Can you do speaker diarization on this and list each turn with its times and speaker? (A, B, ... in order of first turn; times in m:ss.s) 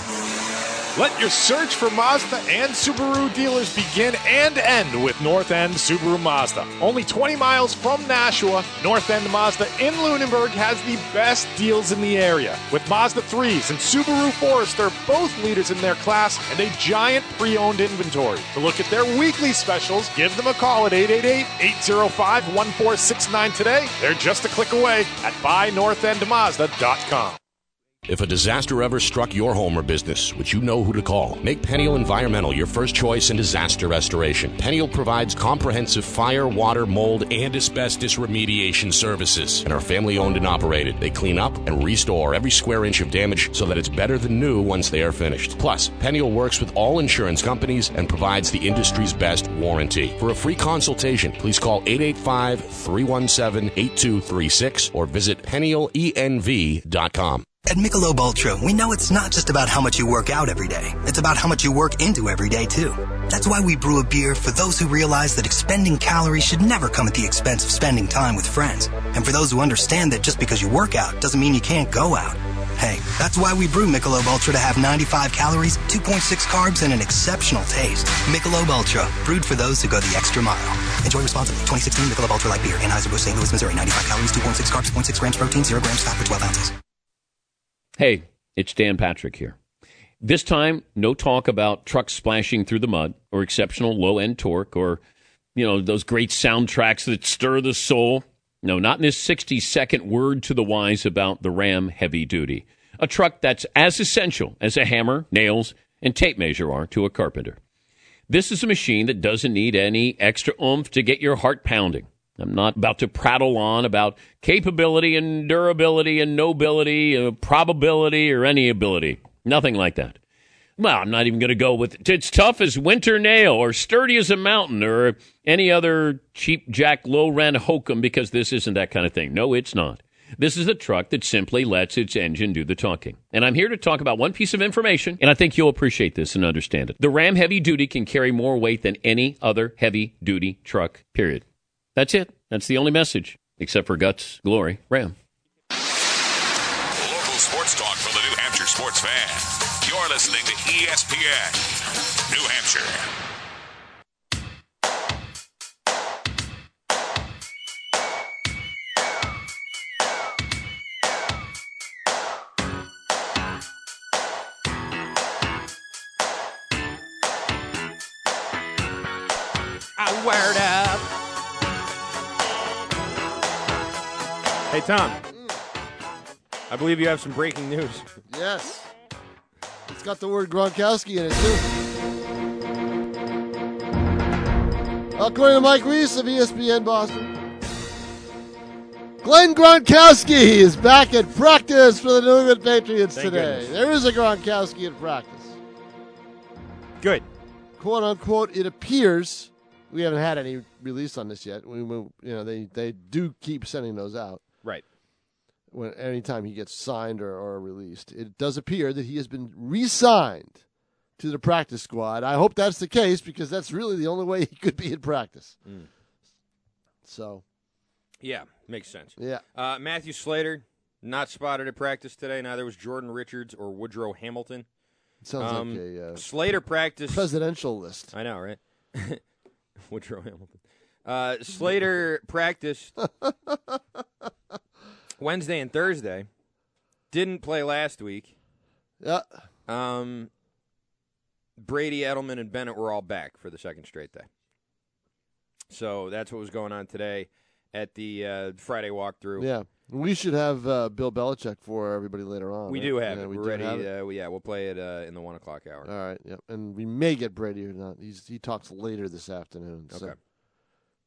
0:00.9-0:27.4 A
0:28.1-0:57.4 B
0:57.6-1:26.7 C
1:28.0-1:29.6 D
1:30.2-1:35.0 D
1:35.6-1:47.6 D
1:48.3-2:00.2 D
2:00.8-2:21.4 D
2:22.0-2:25.1 D
2:27.0-2:31.7 E
2:32.2-2:33.0 E
2:50.0-2:51.1 F
2:54.7-2:55.2 F
2:55.3-2:55.6 G
2:56.7-2:58.0 F
2:58.3-2:58.9 G
2:59.9-3:01.6 G
3:05.1-3:07.3 G
3:09.2-3:15.6 G
3:13.1-3:13.8 F
3:17.0-3:17.2 F
3:17.8-3:24.4 G
3:25.7-3:30.6 G
3:31.2-3:35.6 G
3:37.0-3:37.4 G
3:38.2-3:44.6 F
3:39.2-3:39.4 G
3:45.2-3:46.2 G
3:45.4-3:47.2 F
3:47.1-3:48.1 G
3:48.1-3:49.2 F
3:49.9-3:52.9 F
3:53.0-3:53.8 G
3:55.2-3:56.3 F
3:57.1-3:58.3 F
3:59.0-3:59.3 G
3:59.7-4:00.3 F
4:01.6-4:04.3 F
4:05.7-4:09.5 F
4:09.4-4:13.9 G
4:12.7-4:15.9 F
4:15.8-4:20.1 G
4:19.9-4:20.2 F